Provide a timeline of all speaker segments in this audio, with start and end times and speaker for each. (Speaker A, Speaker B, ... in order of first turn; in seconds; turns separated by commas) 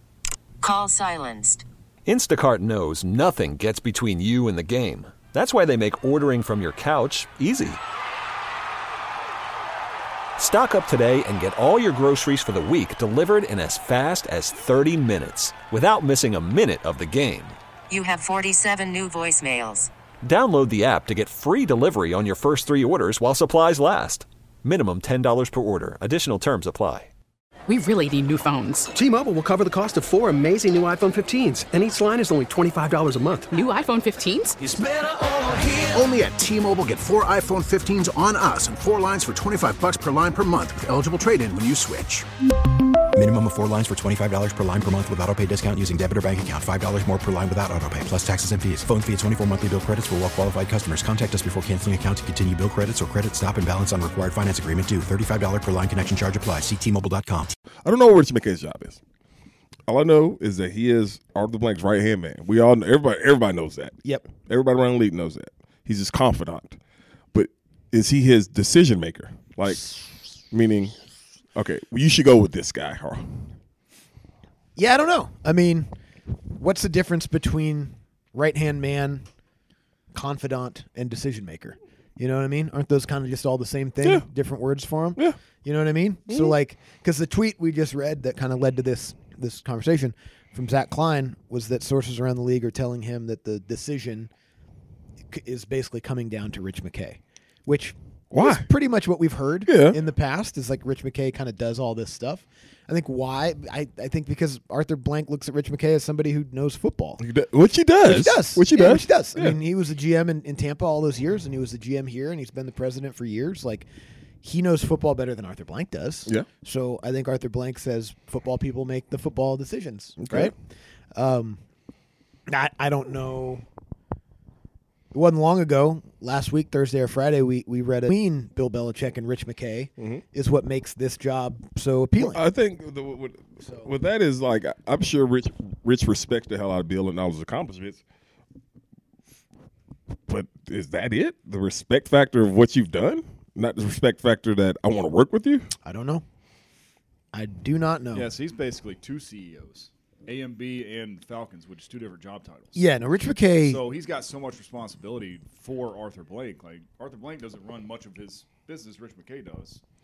Speaker A: 0.6-1.6, Speaker B: 2.0-7.8, Speaker B: 10.4-17.6, Speaker A: 17.9-19.9, Speaker B: 20.2-27.1, Speaker C: 27.7-28.9, Speaker D: 28.9-33.5, Speaker C: 33.5-34.6, Speaker E: 34.6-42.2, Speaker F: 43.1-57.5, Speaker G: 57.8-59.0, Speaker G: 59.9-66.8, Speaker H: 64.0-64.3, Speaker G: 67.3-70.0, Speaker G: 70.5-71.0, Speaker G: 71.5-73.3, Speaker H: 74.8-75.9, Speaker H: 76.5-79.2, Speaker H: 80.1-94.3, Speaker G: 86.3-86.6, Speaker H: 95.3-107.2, Speaker G: 98.3-98.7, Speaker G: 99.7-100.0, Speaker G: 107.2-109.6, Speaker H: 108.0-113.9, Speaker H: 114.4-120.5, Speaker G: 120.2-120.5, Speaker H: 121.1-121.6, Speaker H: 122.5-123.6, Speaker H: 125.1-132.4, Speaker G: 130.0-130.2, Speaker G: 132.2-138.0, Speaker H: 133.6-133.9, Speaker G: 140.3-145.7, Speaker H: 145.8-146.2, Speaker H: 147.3-148.3, Speaker I: 148.1-152.9, Speaker H: 152.7-153.8, Speaker I: 153.6-159.8